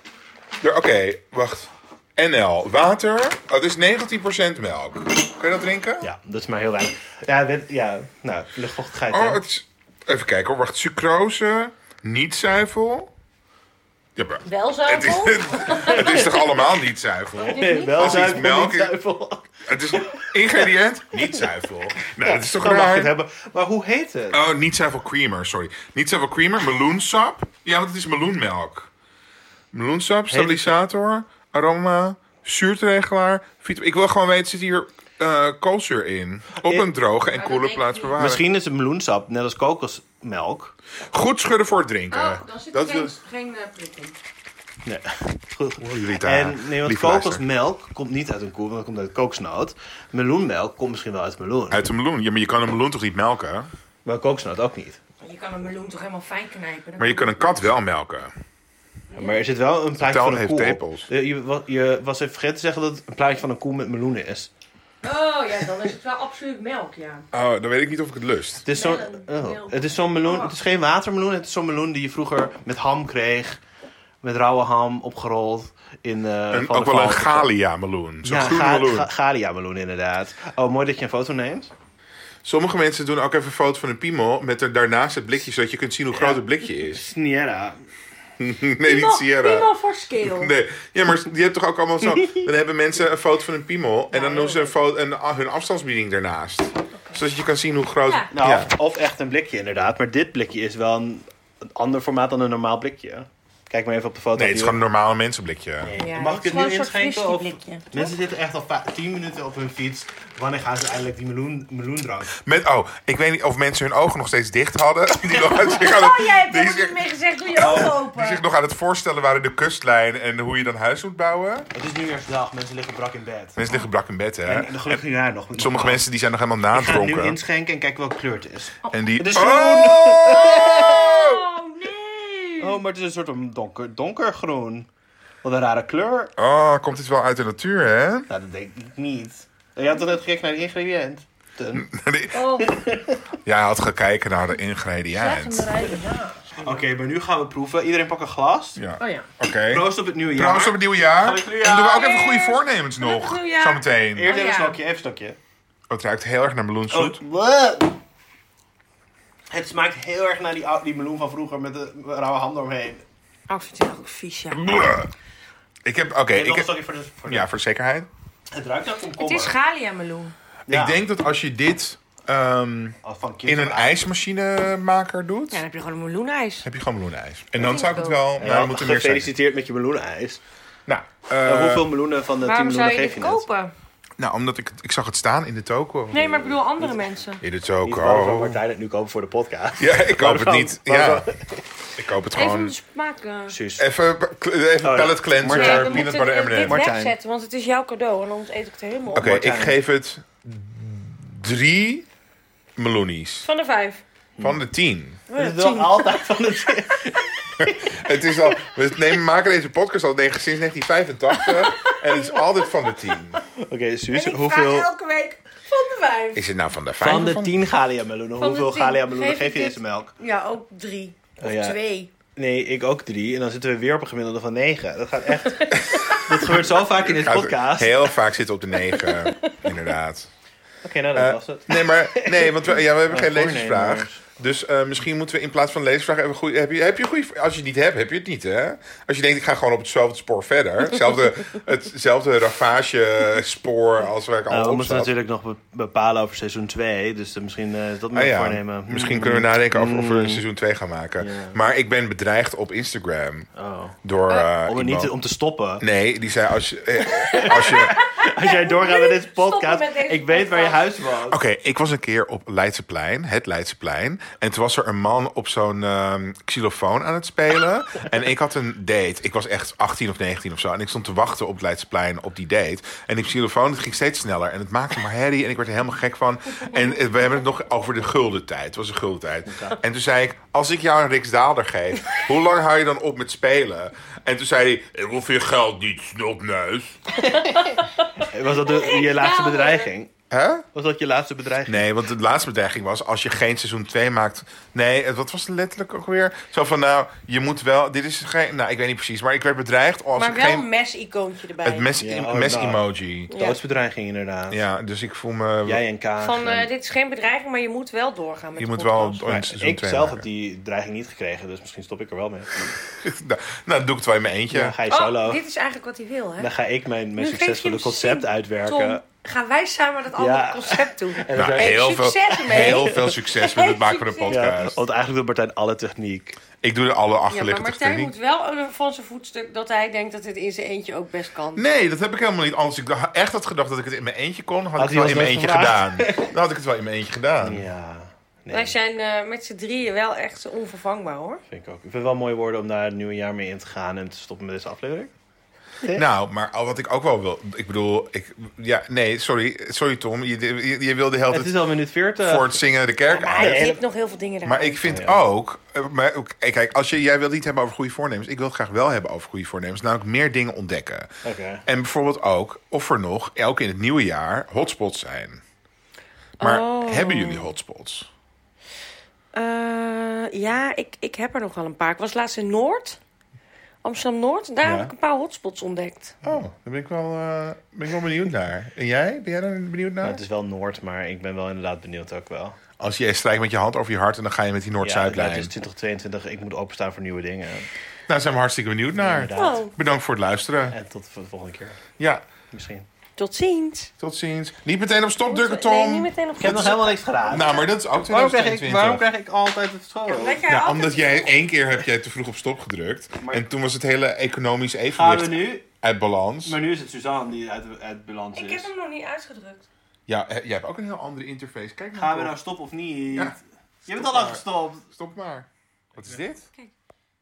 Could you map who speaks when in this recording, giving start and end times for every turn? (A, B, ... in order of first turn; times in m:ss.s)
0:00.6-0:06.1 A
0:06.0-0:09.4 B
0:09.1-0:13.1 A
0:14.2-0:19.0 A
0:14.4-0:16.4 C
0:16.0-0:16.4 B
0:17.4-0:18.4 C
0:17.4-0:20.7 B
0:19.7-0:23.1 A
0:22.1-0:24.4 B
0:24.3-0:28.9 A
0:29.7-0:38.4 A
0:30.3-0:30.7 B
0:36.6-0:36.9 B
0:37.4-0:38.2 C
0:38.2-0:40.7 B
0:41.1-0:43.1 A
0:42.1-0:44.1 C
0:44.8-0:51.8 B
0:45.8-0:47.4 A
0:51.7-0:53.7 A
0:54.0-0:55.0 B
0:55.2-0:57.3 C
0:57.0-0:58.3 A
0:59.1-0:59.6 C
0:59.2-1:04.5 B
1:00.0-1:01.1 A
1:05.0-1:07.3 C
1:07.3-1:08.6 A
1:08.6-1:13.6 B
1:08.7-1:10.5 C
1:14.2-1:17.5 B
1:16.5-1:19.1 A
1:18.2-1:21.7 B
1:22.4-1:27.1 A
1:26.1-1:27.8 B
1:28.4-1:29.7 A
1:28.8-1:30.5 C
1:30.2-1:38.7 A
1:32.2-1:32.5 B
1:34.1-1:34.8 C
1:38.0-1:38.3 C
1:38.3-1:44.8 B
1:44.4-1:45.9 A
1:45.8-1:52.3 B
1:46.0-1:48.1 C
1:52.4-2:01.7 A
1:55.4-1:58.4 C
1:57.6-1:57.9 B
2:01.7-2:03.6 B
2:03.6-2:05.0 A
2:04.5-2:06.0 B
2:05.6-2:07.4 A
2:06.7-2:11.1 B
2:08.9-2:11.4 A
2:10.2-2:12.8 C
2:12.6-2:14.9 B
2:15.4-2:16.3 B
2:16.4-2:18.3 A
2:18.3-2:21.9 B
2:21.7-2:22.6 A
2:22.3-2:22.7 C
2:22.4-2:23.3 B
2:23.4-2:25.7 A
2:25.1-2:26.8 C
2:26.5-2:28.8 B
2:28.8-2:34.3 A
2:29.0-2:29.3 C
2:29.7-2:32.1 B
2:31.8-2:34.8 C
2:34.1-2:35.4 B
2:35.9-2:37.2 A
2:36.9-2:38.0 B
2:39.5-2:43.0 B
2:43.5-2:44.6 C
2:44.5-2:45.1 A
2:45.8-2:46.7 A
2:46.3-2:47.5 B
2:47.3-2:48.1 A
2:48.5-2:49.5 B
2:49.2-2:50.3 C
2:50.7-2:51.0 B
2:50.7-2:55.6 A
2:53.0-2:54.0 B
2:55.5-2:56.7 C
2:56.6-2:59.3 A
2:57.6-2:58.2 C
2:58.4-3:00.4 B
3:00.9-3:01.9 A
3:01.4-3:03.4 B
3:02.4-3:03.7 C
3:04.2-3:06.5 A
3:06.1-3:07.4 C
3:06.5-3:07.0 B
3:07.4-3:08.6 A
3:07.8-3:11.7 B
3:09.8-3:11.3 A
3:12.0-3:12.8 A
3:12.3-3:13.6 C
3:13.5-3:13.8 B
3:13.8-3:16.9 A
3:14.8-3:17.1 B
3:15.5-3:19.3 C
3:19.1-3:19.8 B
3:19.1-3:22.1 A
3:22.8-3:23.5 A
3:23.4-3:24.0 C
3:24.4-3:25.2 A
3:25.3-3:26.5 C
3:25.3-3:28.0 B
3:27.1-3:27.4 C
3:27.6-3:33.4 A
3:31.3-3:33.4 C
3:33.6-3:34.9 B
3:34.1-3:36.5 C
3:36.4-3:37.5 A
3:37.0-3:40.1 B
3:38.4-3:42.1 C
3:41.4-3:41.8 B
3:42.4-3:48.1 B
3:45.5-3:46.3 C
3:45.8-3:46.1 A
3:47.1-3:50.3 A
3:48.8-3:49.7 C
3:50.8-3:54.2 B
3:51.1-4:05.1 A
4:04.5-4:10.4 B
4:08.1-4:13.5 A
4:11.2-4:11.6 B
4:13.6-4:14.0 B
4:14.0-4:15.1 A
4:14.5-4:15.8 B
4:15.8-4:18.0 A
4:17.1-4:21.0 C
4:17.3-4:21.4 B
4:21.2-4:47.0 A
4:39.5-4:39.8 B
4:47.2-4:49.9 C
4:48.2-4:50.1 B
4:50.3-4:50.7 A
4:50.7-4:51.9 B
4:51.7-5:00.7 A
5:00.2-5:02.0 C
5:01.6-5:03.3 A
5:02.0-5:04.6 B
5:03.3-5:03.6 C
5:04.5-5:05.8 A
5:05.6-5:06.7 B
5:06.2-5:09.3 C
5:08.6-5:10.2 A
5:09.3-5:12.7 B
5:12.9-5:14.8 A
5:14.5-5:15.4 B
5:14.9-5:16.5 C
5:16.4-5:19.0 B
5:17.2-5:24.4 C
5:20.2-5:21.8 B
5:21.4-5:24.8 A
5:22.5-5:23.1 B
5:24.3-5:26.4 B
5:26.6-5:28.1 A
5:27.3-5:31.6 C
5:31.6-5:37.7 A
5:34.8-5:36.3 B
5:37.4-5:38.8 B
5:38.5-5:41.4 C
5:41.5-5:45.1 B
5:45.9-5:51.6 A
5:51.3-5:52.6 B
5:52.2-5:53.7 A
5:53.1-5:54.9 C
5:53.3-5:53.8 B
5:54.4-6:01.1 A
5:54.9-5:55.2 B
6:01.2-6:01.6 B
6:01.7-6:05.4 A
6:06.4-6:07.5 C
6:06.4-6:08.1 A
6:09.3-6:13.0 C
6:13.8-6:16.2 C
6:14.6-6:14.9 A
6:16.2-6:20.2 A
6:20.0-6:22.6 B
6:22.8-6:25.5 A
6:24.8-6:27.7 B
6:28.1-6:30.8 A
6:29.0-6:29.7 B
6:29.4-6:29.7 C
6:30.7-6:31.8 B
6:32.0-6:32.2 A
6:32.5-6:32.9 B
6:33.2-6:33.9 C
6:34.0-6:39.0 A
6:35.3-6:37.0 C
6:36.4-6:40.4 B
6:40.1-6:41.4 C
6:40.4-6:46.6 A
6:43.2-6:43.5 B
6:44.9-6:45.7 B
6:46.4-6:48.7 B
6:48.4-6:49.7 C
6:50.1-6:52.4 A
6:52.0-6:54.8 B
6:53.9-6:56.5 A
6:56.0-6:56.2 B